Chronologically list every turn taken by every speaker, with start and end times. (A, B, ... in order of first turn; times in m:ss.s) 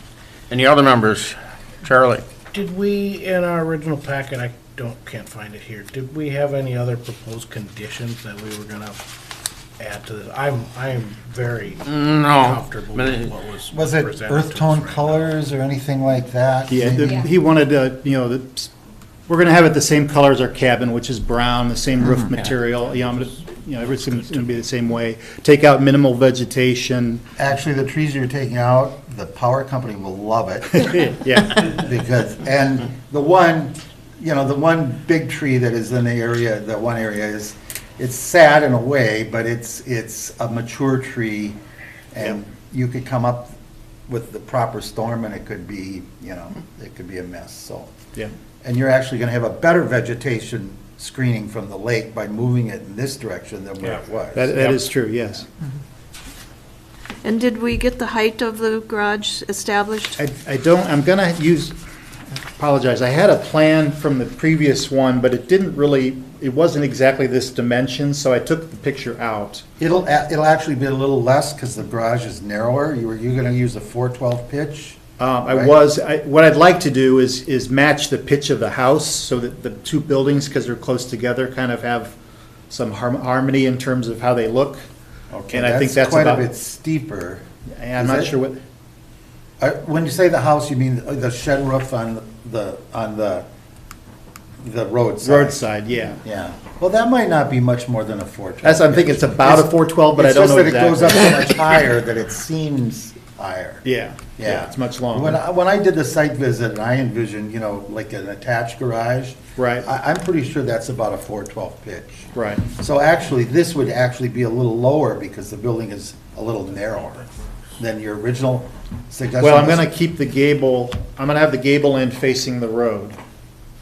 0:00.5-0:02.2 A
0:02.5-0:09.3 B
0:09.8-0:15.3 B
0:11.8-0:13.3 A
0:13.7-0:17.2 C
0:16.7-0:18.7 D
0:19.3-0:27.2 D
0:27.4-0:41.6 C
0:30.8-0:31.8 D
0:42.1-0:43.5 C
0:44.1-0:47.9 C
0:48.6-0:54.8 C
0:54.3-0:55.4 D
0:57.2-1:00.2 E
1:00.2-1:01.8 D
1:02.3-1:09.6 D
1:09.8-1:15.7 C
1:15.2-1:22.1 D
1:22.7-1:24.9 D
1:25.3-1:27.4 C
1:25.5-1:26.5 D
1:27.8-1:28.6 D
1:27.9-1:28.3 C
1:29.6-1:33.4 C
1:34.6-1:35.6 C
1:35.2-1:36.2 D
1:36.2-1:43.8 C
1:38.6-1:41.5 D
1:43.8-1:45.4 D
1:44.4-1:59.8 C
1:49.6-1:49.9 D
1:52.3-1:52.6 D
1:59.4-2:03.2 D